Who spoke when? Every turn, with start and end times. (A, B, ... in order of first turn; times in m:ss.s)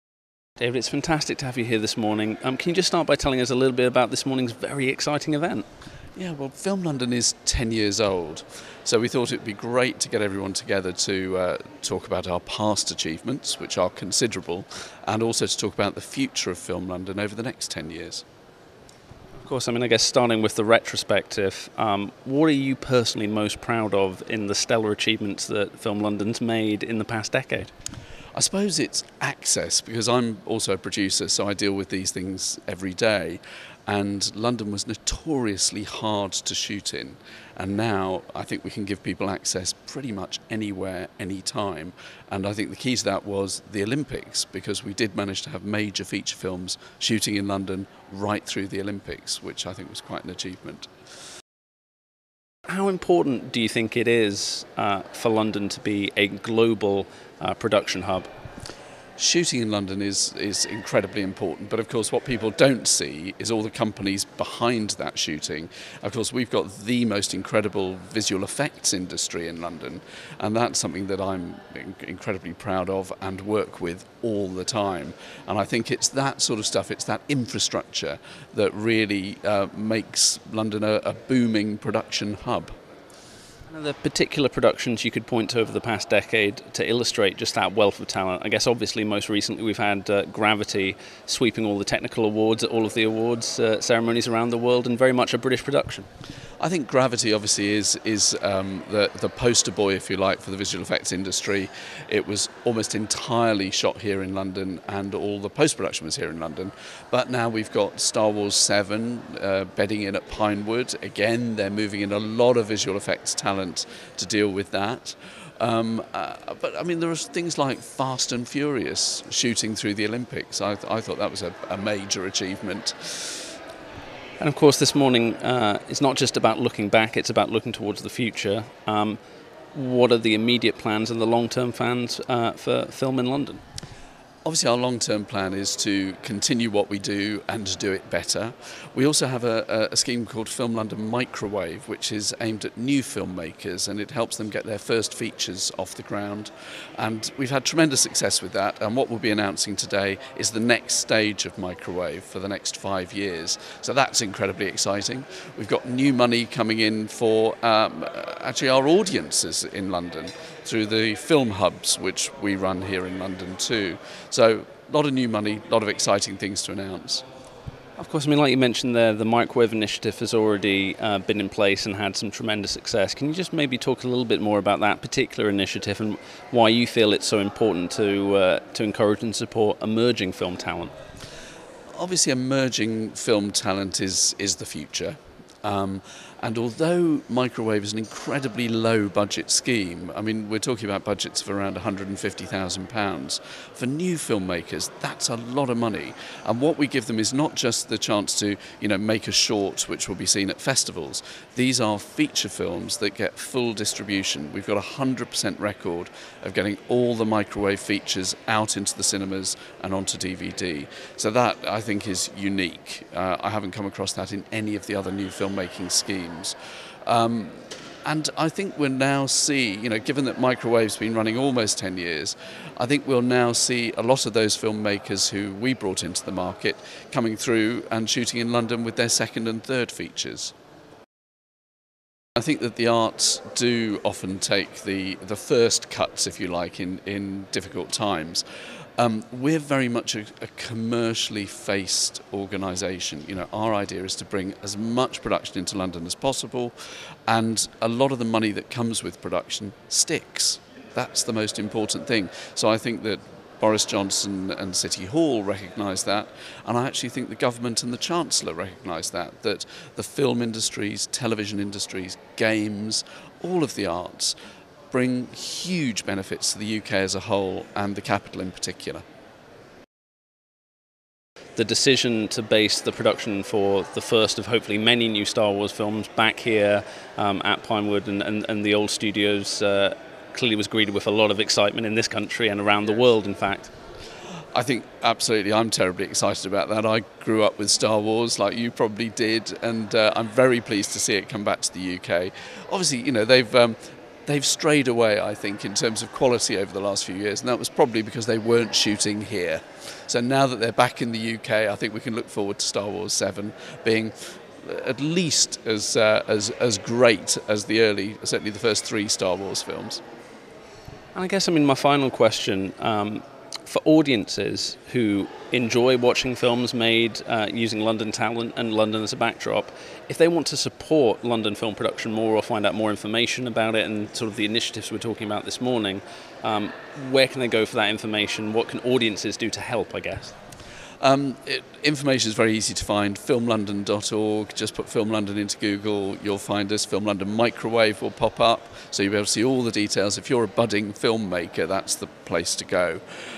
0:00.6-0:05.7 A
0:06.2-0:18.2 B
0:19.4-0:27.7 A
0:28.3-0:50.9 B
0:52.7-0:58.3 A
0:59.2-1:22.8 B
1:23.7-1:36.1 A
1:36.6-2:03.3 B
2:04.4-2:09.2 A
2:09.7-2:13.6 A
2:14.4-2:47.2 B
2:48.0-3:00.9 A
3:02.0-3:50.5 B
3:52.4-3:58.4 B
3:59.0-4:06.7 B
4:07.3-4:24.4 B
4:24.9-4:29.0 B
4:31.6-4:43.7 A
4:44.5-5:10.0 B
5:11.1-5:30.3 A
5:31.0-5:43.0 B